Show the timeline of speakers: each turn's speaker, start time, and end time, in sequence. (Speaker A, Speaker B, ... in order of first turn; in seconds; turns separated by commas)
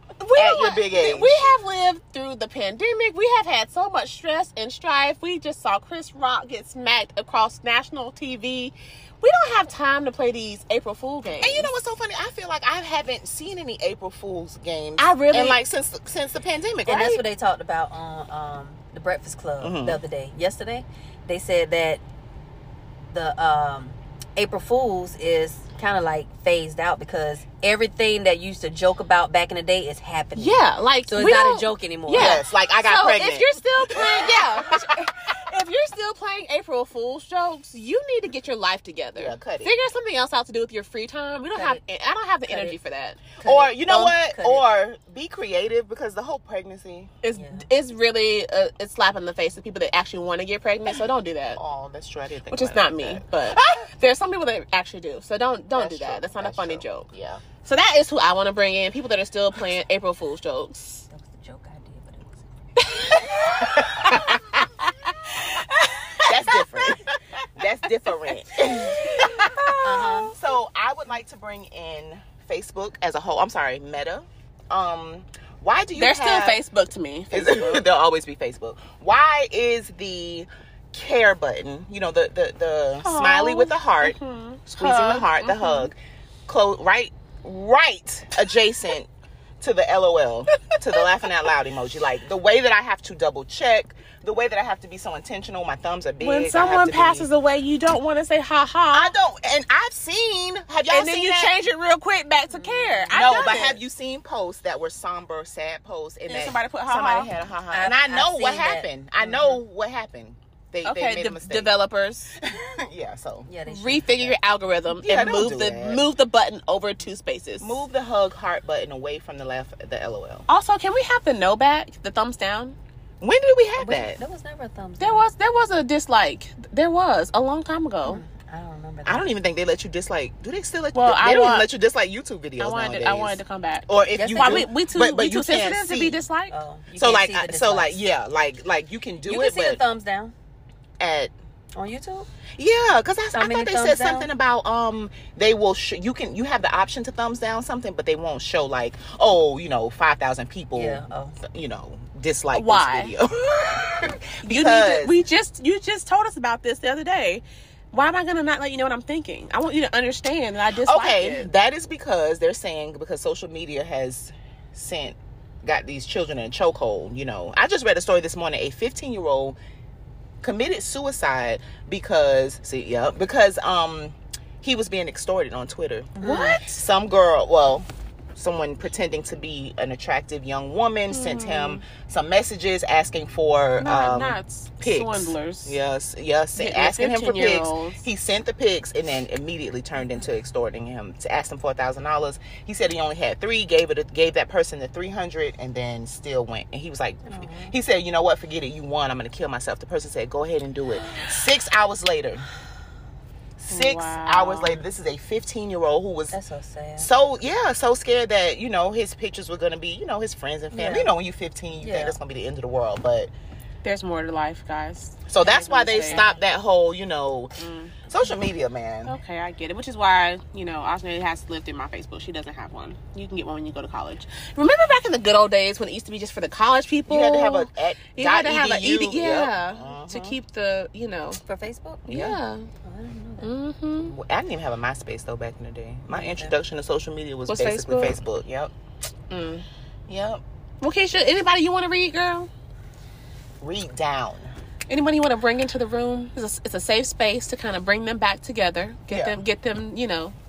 Speaker A: 0.2-11.7, Speaker B: 0.3-1.4, Speaker B: 11.4-17.2, Speaker A: 15.0-15.6, Speaker C: 16.9-22.0, Speaker B: 19.6-20.0, Speaker C: 23.1-32.4, Speaker A: 30.4-43.2, Speaker B: 32.1-34.8, Speaker B: 39.1-39.8, Speaker C: 41.5-41.8, Speaker C: 42.5-42.8, Speaker C: 43.4-44.7, Speaker B: 43.4-47.1, Speaker A: 47.2-51.6, Speaker C: 47.3-47.7, Speaker B: 51.5-53.8, Speaker A: 52.5-57.1, Speaker B: 55.7-57.5, Speaker A: 57.6-61.1, Speaker C: 61.1-62.5, Speaker A: 62.9-64.3, Speaker B: 63.9-64.4, Speaker A: 65.3-67.0, Speaker B: 66.3-69.3, Speaker A: 68.8-70.3, Speaker C: 69.8-70.3, Speaker B: 70.3-76.6, Speaker A: 76.0-77.9, Speaker B: 77.3-84.2, Speaker A: 83.0-85.9, Speaker B: 84.7-89.1, Speaker B: 89.6-97.3, Speaker A: 96.2-99.2, Speaker B: 98.9-101.5, Speaker A: 100.9-103.8, Speaker C: 102.5-103.6, Speaker B: 103.1-111.8, Speaker A: 106.3-107.3, Speaker C: 107.7-108.9, Speaker A: 109.2-109.6, Speaker A: 110.8-112.3, Speaker B: 112.4-113.5, Speaker C: 113.5-114.4, Speaker A: 113.7-117.8, Speaker B: 115.0-116.1, Speaker B: 117.6-120.5, Speaker A: 120.5-122.8, Speaker B: 123.2-124.2, Speaker C: 123.8-125.3, Speaker A: 125.0-128.2, Speaker C: 128.0-129.3, Speaker B: 129.1-136.2, Speaker A: 130.9-131.7, Speaker A: 132.6-136.5, Speaker C: 134.2-134.7, Speaker C: 136.5-138.0, Speaker B: 136.9-139.8, Speaker C: 139.2-140.3, Speaker B: 141.0-141.3, Speaker C: 141.8-142.3, Speaker B: 142.6-155.2, Speaker C: 143.3-144.3, Speaker C: 150.8-151.4, Speaker A: 152.5-153.2, Speaker A: 154.4-161.5, Speaker B: 160.8-169.6, Speaker B: 170.4-202.5, Speaker C: 176.2-176.7, Speaker A: 181.1-181.8, Speaker A: 183.8-185.8, Speaker A: 186.6-188.0, Speaker C: 197.3-197.8, Speaker B: 203.6-206.4, Speaker A: 203.7-204.8, Speaker C: 206.3-207.1, Speaker B: 207.0-213.3, Speaker C: 210.7-211.1, Speaker C: 211.8-212.2, Speaker A: 213.8-216.2, Speaker B: 215.3-217.5, Speaker C: 215.8-216.4, Speaker A: 217.6-218.0, Speaker B: 218.1-219.2, Speaker A: 219.1-231.4, Speaker B: 227.1-230.4, Speaker C: 231.4-232.1, Speaker A: 232.1-232.7, Speaker B: 232.1-232.4, Speaker C: 232.8-233.5, Speaker A: 233.4-234.1, Speaker B: 234.0-238.7, Speaker C: 236.1-236.5, Speaker A: 237.5-238.2, Speaker A: 239.3-239.7, Speaker B: 240.1-240.4, Speaker A: 240.8-242.5, Speaker B: 243.6-244.5, Speaker A: 244.9-250.3, Speaker B: 249.1-249.4